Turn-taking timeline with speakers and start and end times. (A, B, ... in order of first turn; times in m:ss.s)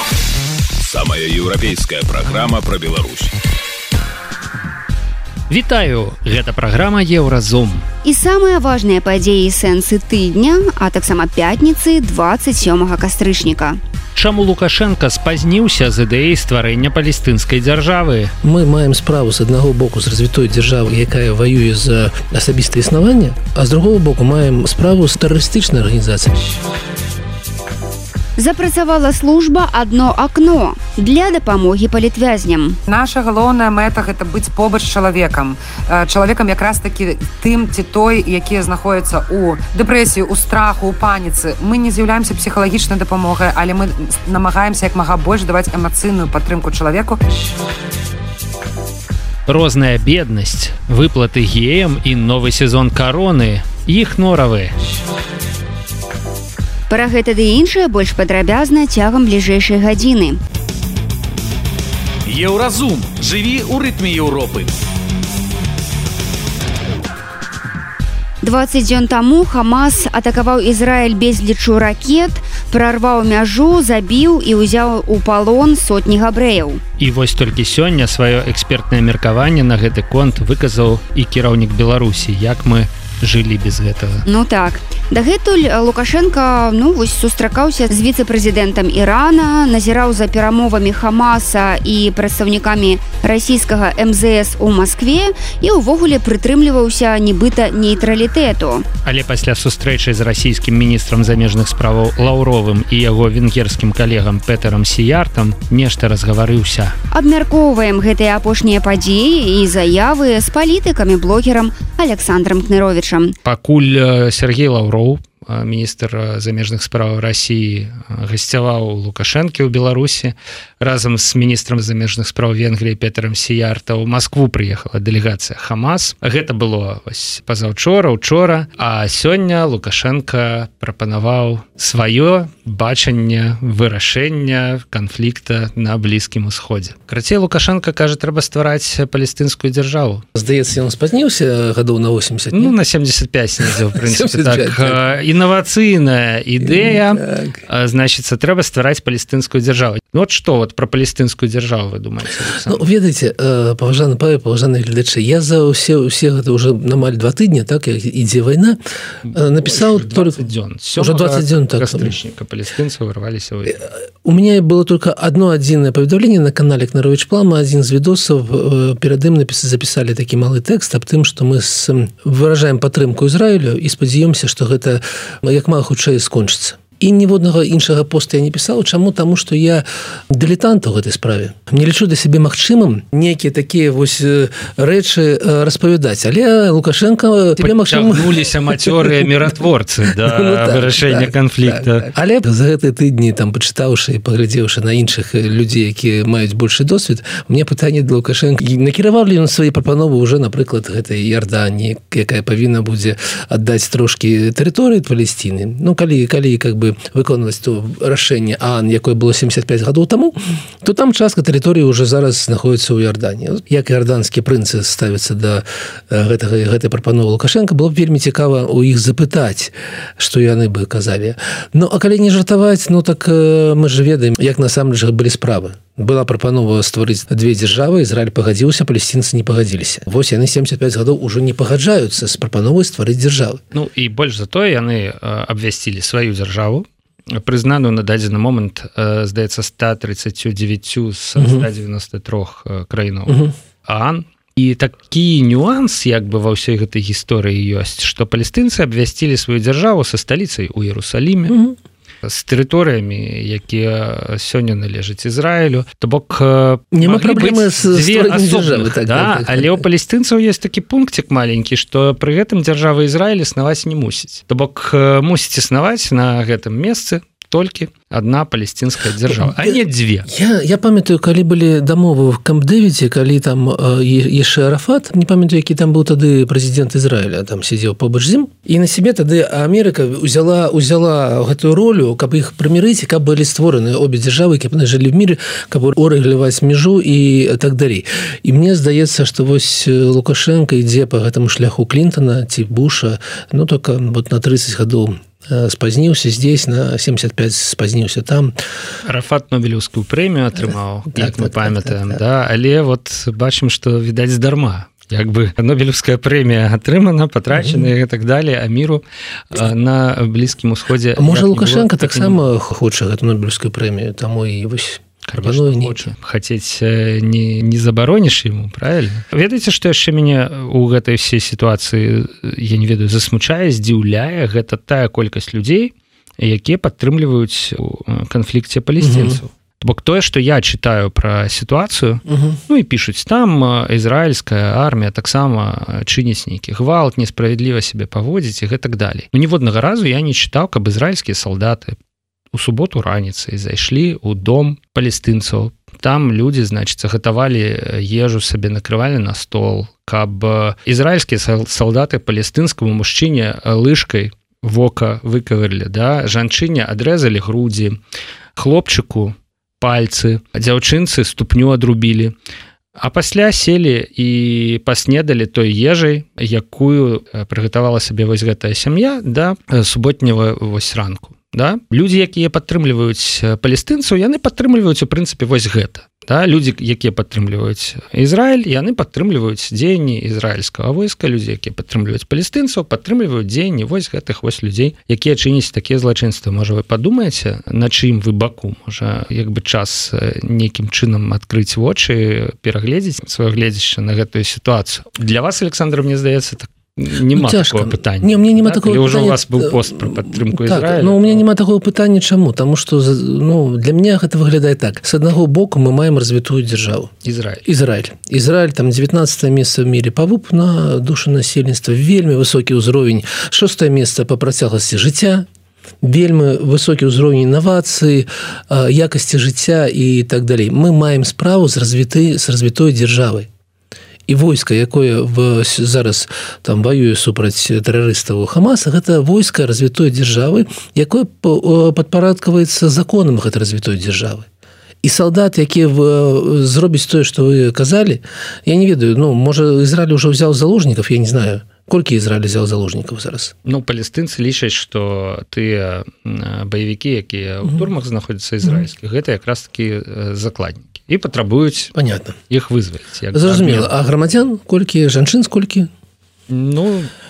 0:00.8-0:03.4 A
0:05.5-0:07.8 B
0:08.0-0:13.8 C
0:14.2-0:18.3 B
0:18.4-0:26.4 D
0:28.4-0:32.8 C
0:32.9-0:47.2 E
0:49.5-0:54.7 B
0:56.9-1:00.4 C
1:02.2-1:04.7 F
1:08.4-1:16.8 C
1:17.0-1:24.2 B
1:24.2-1:38.8 C
1:39.0-1:46.9 B
1:47.1-1:53.3 C
1:53.4-2:20.2 B
2:20.4-2:22.8 D
2:22.5-2:32.8 B
2:23.6-2:25.0 D
2:26.6-2:27.6 D
2:32.6-2:38.8 D
2:39.2-2:43.8 B
2:39.3-2:42.1 D
2:44.2-3:09.5 D
3:07.6-3:12.1 B
3:10.0-3:53.6 D
3:53.7-4:11.6 B
4:01.4-4:01.7 D
4:03.3-4:03.5 D
4:11.5-4:11.8 D
4:12.2-4:30.3 B
4:16.9-4:19.8 D
4:29.2-4:58.5 D
4:59.0-5:12.4 B
5:00.6-5:02.2 D
5:07.5-5:07.9 D
5:11.2-5:16.1 D
5:15.3-5:42.0 B
5:29.0-5:29.4 D
5:32.3-5:32.6 D
5:42.5-5:58.0 B
5:58.6-6:02.3 B
6:03.0-6:41.4 B
6:37.3-6:47.1 D
6:47.2-6:47.6 B
6:47.6-6:55.5 D
6:56.0-7:03.5 D
7:04.3-7:14.5 D
7:15.0-7:23.5 D
7:23.6-7:31.9 B
7:31.9-7:32.4 D
7:32.5-7:33.9 B
7:33.3-7:35.9 D
7:36.5-7:37.1 B